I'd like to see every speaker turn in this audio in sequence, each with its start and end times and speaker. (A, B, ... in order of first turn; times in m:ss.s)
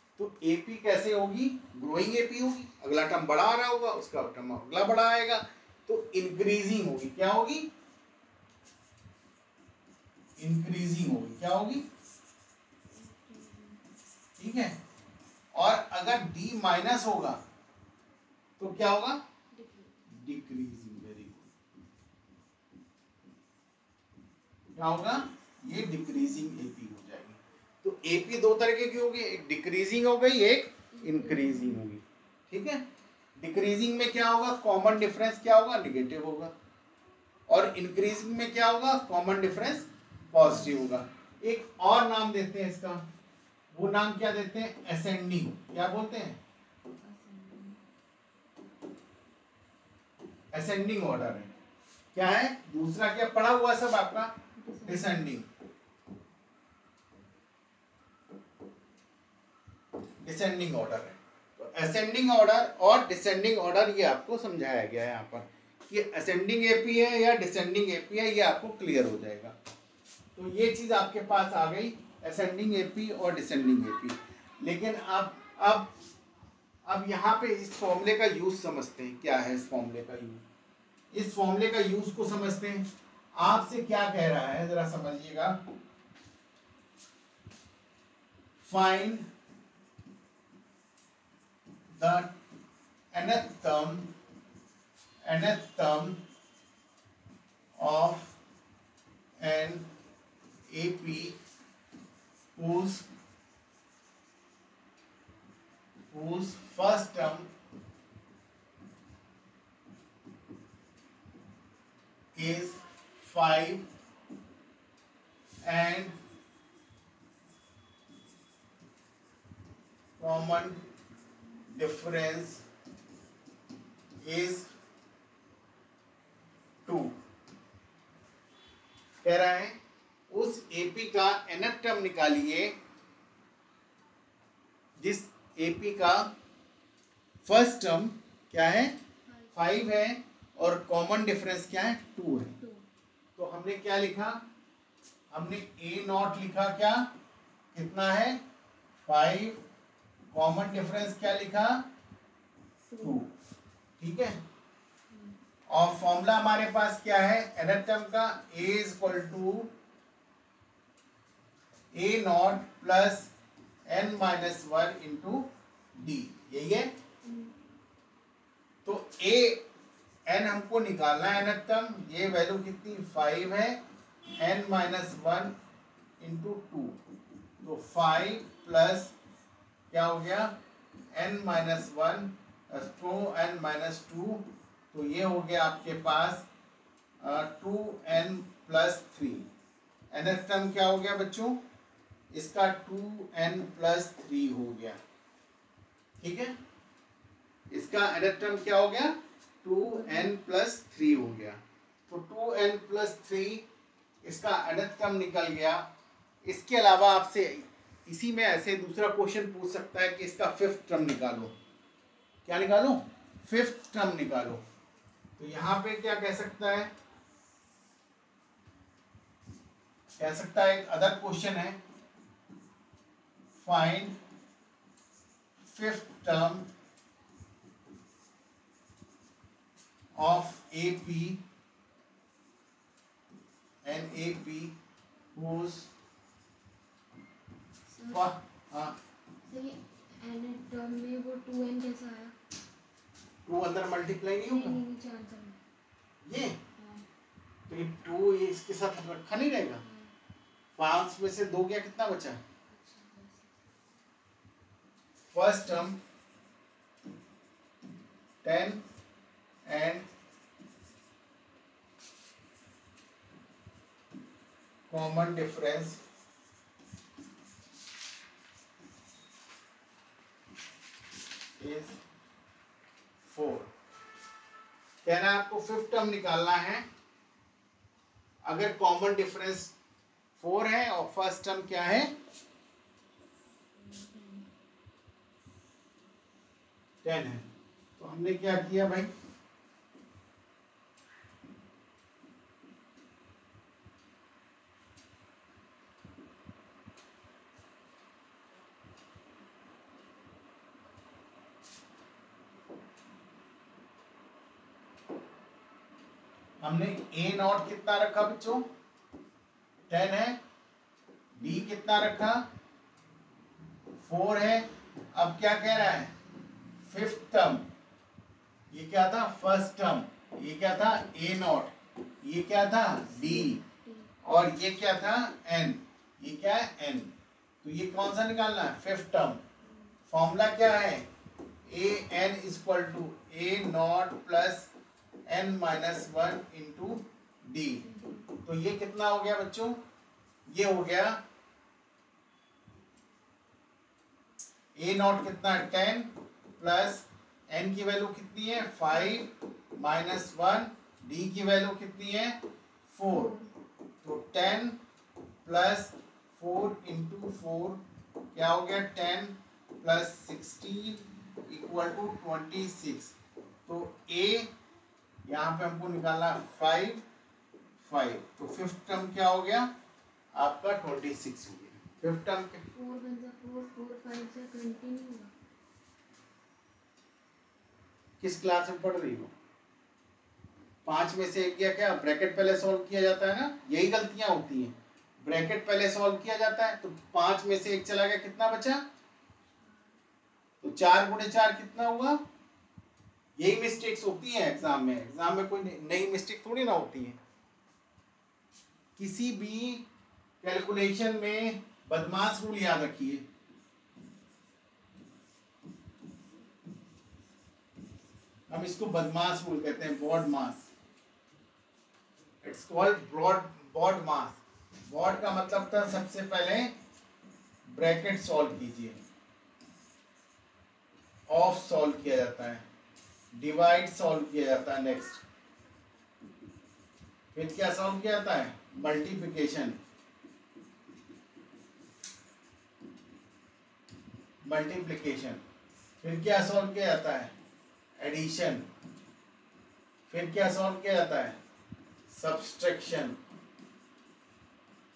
0:00.2-0:07.7 A
0:10.4-0:11.9 A
0:12.9-0:13.8 B
0:14.4-0:14.8 A
0:15.5-0:17.4 A
0:18.6-0:19.2 A
0:19.5-0:20.0 B
0:20.1-0:21.5 A
0:24.8-0:32.8 A
0:30.9-0:31.8 B
0:33.4-0:36.5 A
0:37.5-0:43.0 A
0:43.7-0:46.4 A
0:47.0-0:47.8 B
0:50.5-0:51.5 A
0:52.2-0:55.5 A
0:54.6-0:55.3 B
1:00.2-1:09.6 A
1:10.4-1:15.9 A
1:16.9-1:20.4 A
1:21.1-1:25.6 A
1:28.6-1:29.3 A
1:32.0-1:32.3 A
1:33.1-1:34.1 A
1:35.2-1:36.2 A
1:37.8-1:38.4 A
1:39.4-1:39.9 A
1:40.7-1:41.4 A
1:42.6-1:43.1 A
1:46.1-1:47.5 A
1:52.4-1:53.9 A
1:55.6-1:56.2 A
2:00.2-2:00.8 A
2:01.7-2:02.6 A
2:04.2-2:04.7 A
2:06.9-2:07.1 A
2:09.2-2:09.8 A
2:10.3-2:12.8 A
2:15.0-2:16.3 A
2:17.4-2:19.0 A
2:19.3-2:19.8 B
2:19.5-2:22.6 A
2:22.6-2:22.8 B
2:23.4-2:24.4 A
2:25.3-2:27.1 A
2:27.7-2:28.4 A
2:29.0-2:29.6 A
2:30.3-2:31.9 A
2:32.9-2:33.2 B
2:33.0-2:33.3 A
2:34.0-2:34.4 A
2:35.1-2:35.4 B
2:35.7-2:39.7 A
2:41.9-2:43.3 A
2:43.9-2:46.9 A
2:47.2-2:47.6 B
2:48.8-2:49.6 A
2:50.3-2:53.8 A
2:54.4-2:55.6 A
2:56.2-2:57.0 A
2:57.6-2:59.1 A
2:59.9-3:00.6 A
3:01.1-3:06.5 A
3:07.2-3:09.5 A
3:10.1-3:11.6 A
3:12.3-3:15.0 A
3:16.2-3:16.6 A
3:17.7-3:23.6 A
3:19.8-3:20.3 B
3:24.2-3:25.8 A
3:26.4-3:31.5 A
3:32.5-3:34.6 A
3:35.4-3:36.9 A
3:40.2-3:41.8 A
3:43.6-3:44.2 A
3:45.6-3:46.7 A
3:50.2-3:51.4 A
3:53.8-3:54.8 A
3:55.4-3:55.9 A
3:57.9-3:58.3 B
3:58.1-3:59.0 A
3:59.4-4:02.4 B
4:03.5-4:04.8 A
4:04.5-4:05.6 B
4:06.2-4:06.6 A
4:06.8-4:07.0 B
4:07.7-4:09.8 A
4:09.8-4:10.2 B
4:10.8-4:12.4 A
4:12.7-4:13.6 B
4:15.3-4:16.0 A
4:18.4-4:18.8 A
4:19.7-4:20.1 A
4:24.9-4:26.0 A
4:31.6-4:32.0 A
4:33.3-4:33.7 A
4:35.0-4:36.8 A
4:38.4-4:39.7 A
4:40.4-4:42.1 A
4:43.7-4:44.5 B
4:47.0-4:47.5 A
4:48.0-4:49.1 A
5:06.6-5:08.7 A
5:09.9-5:10.4 A
5:11.4-5:12.4 A
5:11.4-5:11.7 B
5:14.0-5:16.1 A
5:16.8-5:17.7 A
5:18.7-5:23.6 A
5:23.1-5:24.2 B
5:24.2-5:27.1 A
5:27.6-5:29.4 A
5:29.6-5:30.0 B
5:30.1-5:31.1 A
5:31.7-5:34.7 A
5:35.3-5:37.9 A
5:37.8-5:38.4 B
5:38.4-5:39.8 A
5:40.5-5:41.2 A
5:44.8-5:53.3 A
5:53.0-5:53.5 B
5:54.0-5:54.8 A
5:55.4-5:57.8 A
5:58.3-6:03.2 A
6:03.7-6:04.5 A
6:05.3-6:07.0 A
6:07.8-6:09.7 A
6:10.3-6:12.6 A
6:12.7-6:15.3 B
6:18.2-6:19.3 A
6:20.8-6:28.8 A
6:29.6-6:30.0 B
6:30.6-6:32.2 A
6:33.4-6:37.2 A
6:39.0-6:39.8 A
6:40.4-6:43.2 A
6:48.5-6:50.7 A
6:52.4-6:56.7 A
6:57.7-6:59.0 A
7:01.3-7:02.6 A
7:03.4-7:05.2 A
7:07.3-7:09.8 A
7:14.4-7:15.4 A
7:16.0-7:17.3 A
7:18.0-7:18.6 A
7:20.1-7:21.4 A
7:22.1-7:23.2 A